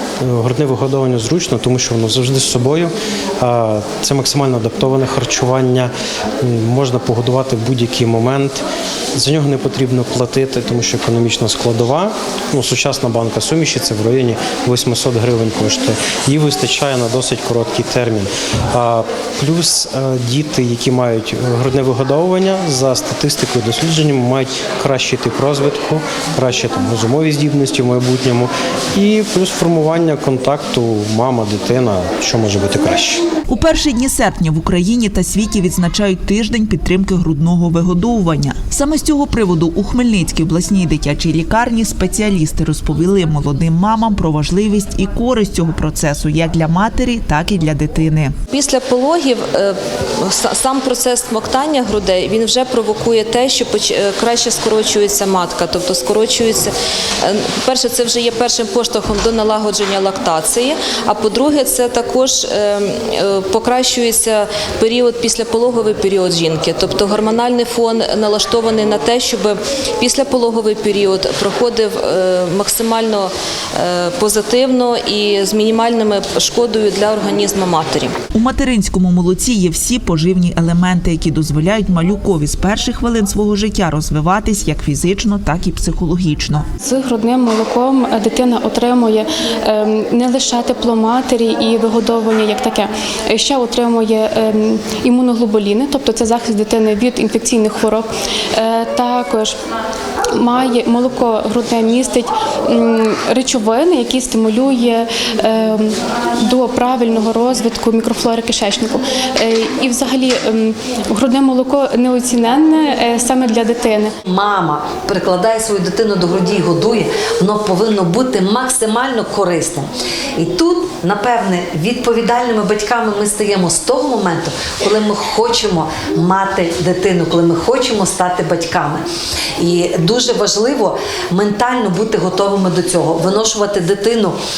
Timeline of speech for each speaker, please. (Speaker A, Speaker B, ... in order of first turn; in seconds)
Speaker A: 0.2-33.2
Speaker B: 33.5-48.4, 78.3-86.7
Speaker C: 48.5-78.2
Speaker D: 87.3-99.6, 100.4-114.1
Speaker E: 114.3-129.0, 129.6-134.4